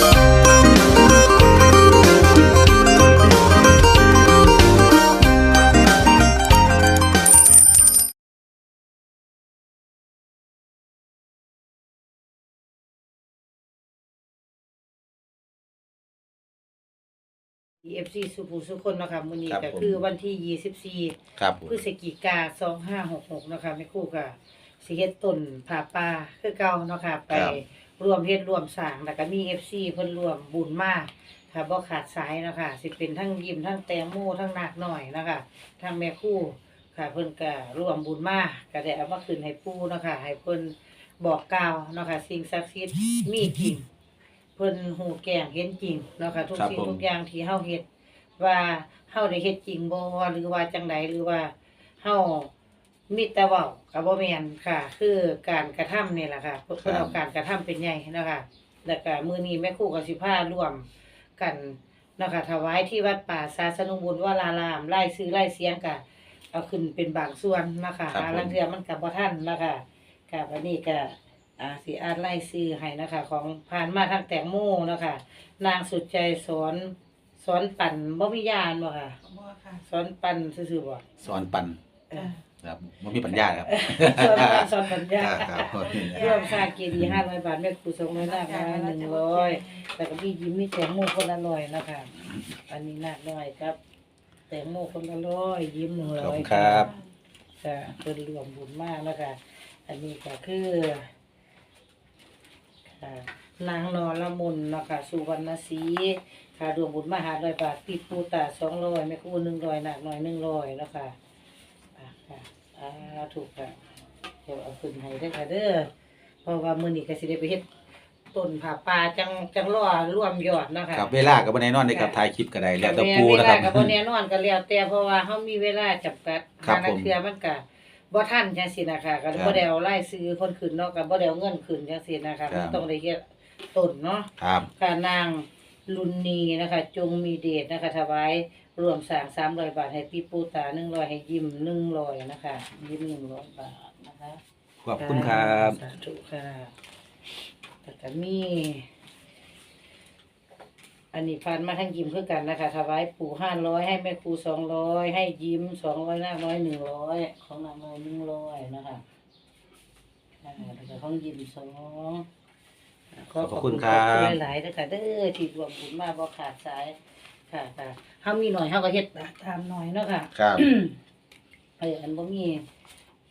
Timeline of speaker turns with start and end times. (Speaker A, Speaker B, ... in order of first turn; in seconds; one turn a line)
Speaker A: 17.8-43.8
Speaker B: 19.5-20.0
Speaker B: 21.4-21.8
Speaker B: 27.3-27.6
Speaker A: 44.5-47.8
Speaker B: 46.5-47.0
Speaker A: 48.4-52.5
Speaker A: 53.1-60.9
Speaker B: 56.8-57.1
Speaker A: 61.4-79.2
Speaker B: 68.1-68.5
Speaker C: 79.3-79.6
Speaker A: 79.7-81.0
Speaker B: 81.2-81.8
Speaker B: 82.6-87.2
Speaker A: 83.6-92.1
Speaker C: 86.0-86.4
Speaker C: 88.3-89.6
Speaker A: 92.7-93.8
Speaker A: 94.5-96.9
Speaker B: 96.2-96.9
Speaker A: 97.6-101.1
Speaker A: 103.0-111.1
Speaker A: 112.0-113.8
Speaker A: 114.4-115.9
Speaker A: 116.4-117.7
Speaker A: 118.3-121.1
Speaker B: 120.9-123.9
Speaker A: 121.9-122.1
Speaker A: 122.8-144.4
Speaker B: 126.6-127.1
Speaker B: 129.3-129.6
Speaker B: 132.5-132.8
Speaker B: 134.4-134.7
Speaker B: 144.8-145.8
Speaker A: 145.0-146.7
Speaker A: 147.8-148.8
Speaker A: 151.1-159.0
Speaker A: 160.4-162.2
Speaker A: 163.1-166.9
Speaker B: 163.4-164.4
Speaker A: 167.5-170.9
Speaker B: 170.3-170.7
Speaker A: 171.8-172.6